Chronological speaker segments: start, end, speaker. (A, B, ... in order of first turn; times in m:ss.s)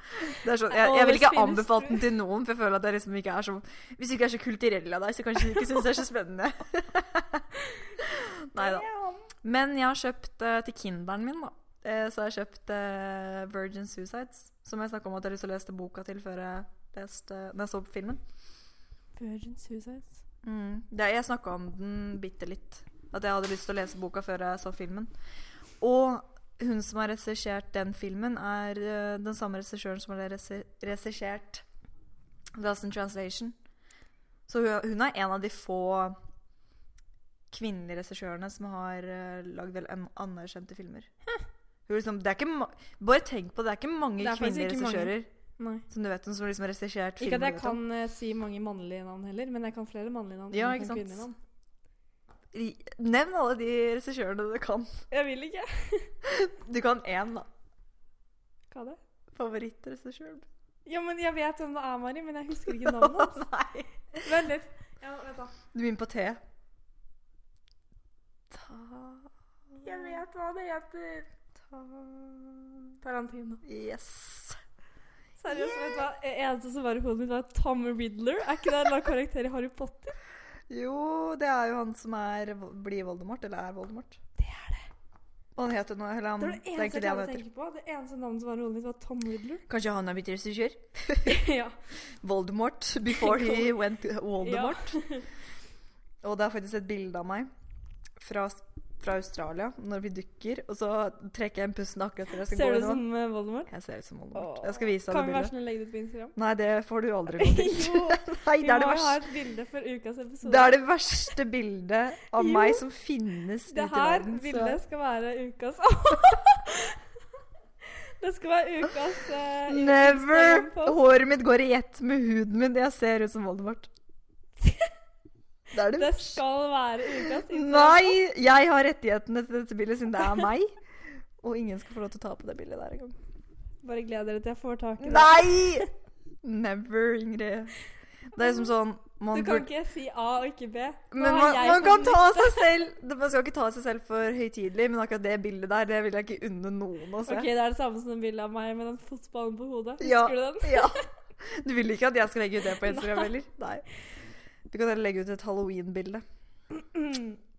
0:00.3-0:07.5 A
0:00.7-0:02.0 B
0:07.6-0:07.9 B
0:08.0-0:08.8 A
0:08.5-0:09.3 B
0:09.4-0:18.2 A
0:19.2-0:20.2 B
0:20.4-0:25.1 A
0:25.8-0:31.6 A
0:32.6-0:33.5 A
0:34.5-0:36.2 A
0:37.5-0:41.1 A
0:41.9-0:45.3 A
0:44.2-0:45.8 B
0:45.9-0:47.8 A
0:47.2-0:51.4 B
0:50.5-0:51.2 A
0:52.5-0:54.9 A
0:55.1-0:56.1 B
0:56.2-0:57.5 A
0:58.7-0:59.0 B
0:59.3-1:00.4 A
1:00.8-1:03.5 B
1:02.7-1:04.2 A
1:04.2-1:05.5 B
1:05.7-1:06.4 A
1:08.5-1:10.2 A
1:09.8-1:11.3 B
1:11.7-1:12.9 A
1:13.0-1:13.6 B
1:13.6-1:14.6 A
1:15.4-1:20.2 B
1:15.5-1:16.0 A
1:20.7-1:24.2 A
1:24.4-1:24.9 B
1:25.5-1:27.4 A
1:26.4-1:29.6 B
1:29.7-1:31.4 A
1:31.2-1:31.8 B
1:32.2-1:35.0 A
1:33.1-1:33.7 B
1:34.4-1:35.3 B
1:36.2-1:37.5 A
1:38.2-1:43.0 A
1:42.5-1:43.7 B
1:43.7-1:45.5 A
1:44.3-1:46.4 B
1:46.4-1:49.2 A
1:47.4-1:51.3 B
1:50.4-1:54.8 A
1:52.4-1:52.8 B
1:53.7-1:57.0 B
1:57.9-2:01.0 B
1:59.7-2:03.9 A
2:04.6-2:04.9 B
2:05.7-2:06.4 A
2:05.8-2:08.2 B
2:07.2-2:13.2 A
2:13.8-2:15.9 B
2:15.0-2:15.9 A
2:16.4-2:17.7 A
2:18.3-2:19.7 A
2:18.4-2:18.7 B
2:19.3-2:22.7 B
2:21.1-2:27.5 A
2:27.2-2:31.1 B
2:30.0-2:33.8 A
2:32.8-2:33.3 B
2:34.7-2:36.2 A
2:36.7-2:37.4 B